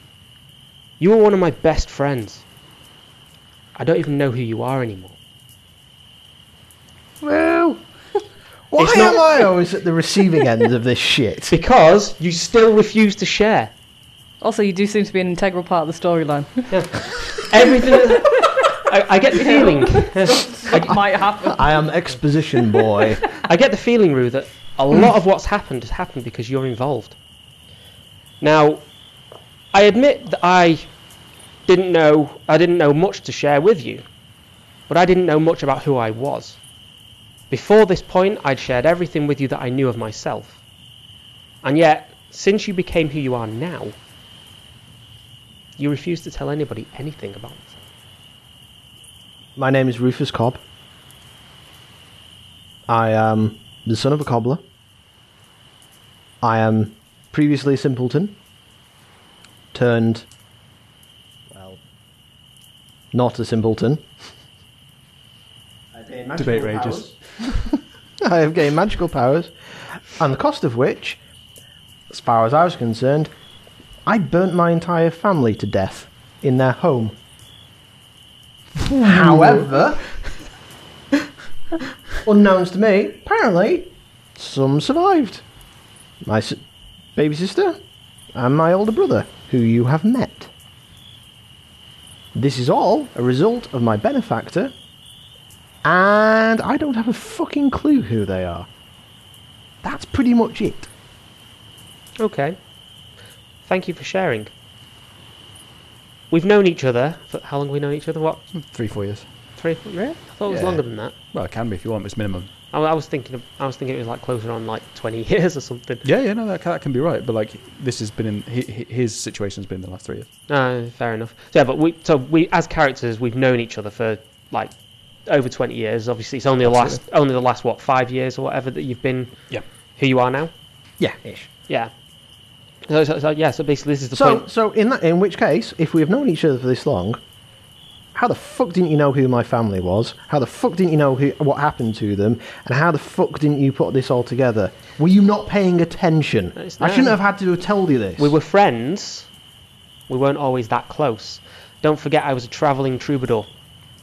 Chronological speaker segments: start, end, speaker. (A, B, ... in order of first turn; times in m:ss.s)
0:01.0-0:02.4 A
0:03.8-0:05.2 A
0:07.2-0:07.8 B
0:08.7-0:11.5 C
0:08.8-0:09.2 A
0:11.5-0:13.7 A
0:14.4-0:16.7 B
0:16.7-0:20.9 A
0:19.4-0:21.8 B
0:20.7-0:23.2 C
0:23.4-0:27.2 A
0:28.4-0:28.8 A
0:29.7-0:30.9 A
0:31.7-0:34.0 A
0:34.9-0:36.6 A
0:37.5-0:40.6 A
0:41.6-0:44.0 A
0:45.8-0:47.8 A
0:49.6-0:50.6 C
0:52.9-0:54.6 C
0:56.4-0:58.4 C
0:59.7-1:00.2 C
1:01.5-1:01.8 C
1:03.1-1:04.0 C
1:05.9-1:11.2 C
1:06.4-1:07.5 D
1:12.1-1:13.3 C
1:14.0-1:17.2 C
1:18.8-1:19.6 D
1:19.0-1:20.0 C
1:22.2-1:25.4 C
1:26.2-1:26.6 C
1:27.2-1:27.8 C
1:28.3-1:30.5 C
1:32.3-1:34.7 C
1:35.8-1:38.7 C
1:39.8-1:40.9 C
1:42.2-1:42.6 A
1:43.6-1:44.5 A
1:46.3-1:48.4 A
1:48.5-1:49.3 D
1:49.6-1:51.1 A
1:50.5-1:52.5 D
1:52.7-1:56.0 A
1:56.0-2:00.3 D
2:00.5-2:04.7 A
2:05.2-2:10.5 A
2:06.6-2:07.0 D
2:11.0-2:11.5 C
2:12.9-2:14.4 A
2:14.1-2:17.2 C
2:18.1-2:28.3 C
2:26.6-2:27.2 A
2:28.2-2:29.3 A
2:30.1-2:33.5 A